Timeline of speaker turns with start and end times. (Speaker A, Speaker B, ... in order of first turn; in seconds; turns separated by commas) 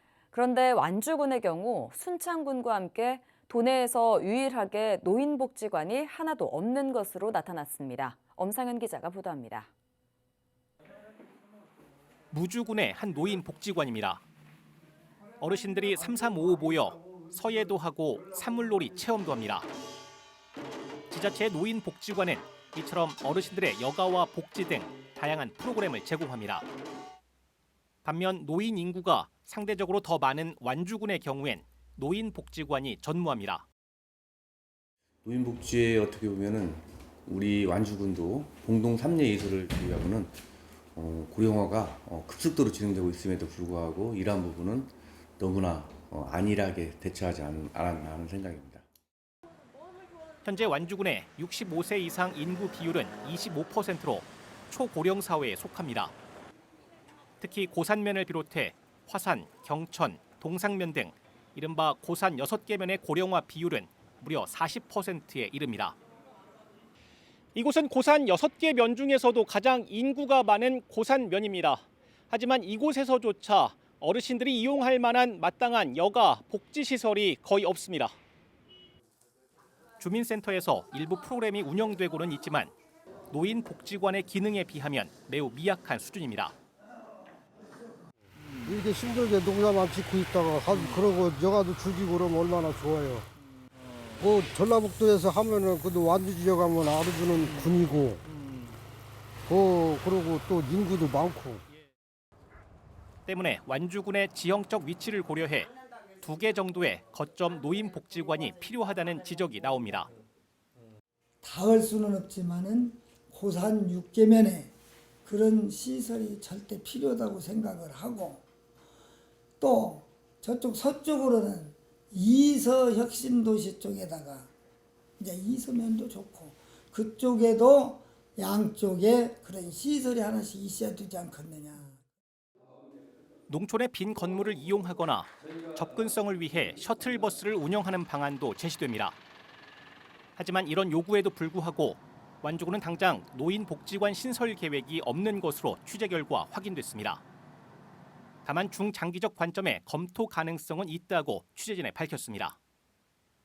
Speaker A: 0.3-9.7, Speaker B: 12.3-14.2, Speaker B: 15.4-19.7, Speaker B: 21.1-26.7, Speaker B: 28.0-33.6, Speaker C: 35.2-40.3, Speaker C: 41.0-48.9, Speaker B: 50.4-56.1, Speaker B: 57.4-66.0, Speaker B: 67.5-78.2, Speaker B: 80.0-82.7, Speaker B: 83.3-86.5, Speaker D: 88.7-93.3, Speaker D: 94.2-98.2, Speaker D: 99.5-101.6, Speaker B: 103.3-110.1, Speaker E: 111.4-114.7, Speaker E: 115.2-118.4, Speaker E: 119.6-124.5, Speaker E: 125.2-132.0, Speaker B: 133.5-139.2, Speaker B: 140.4-147.2, Speaker B: 148.4-152.6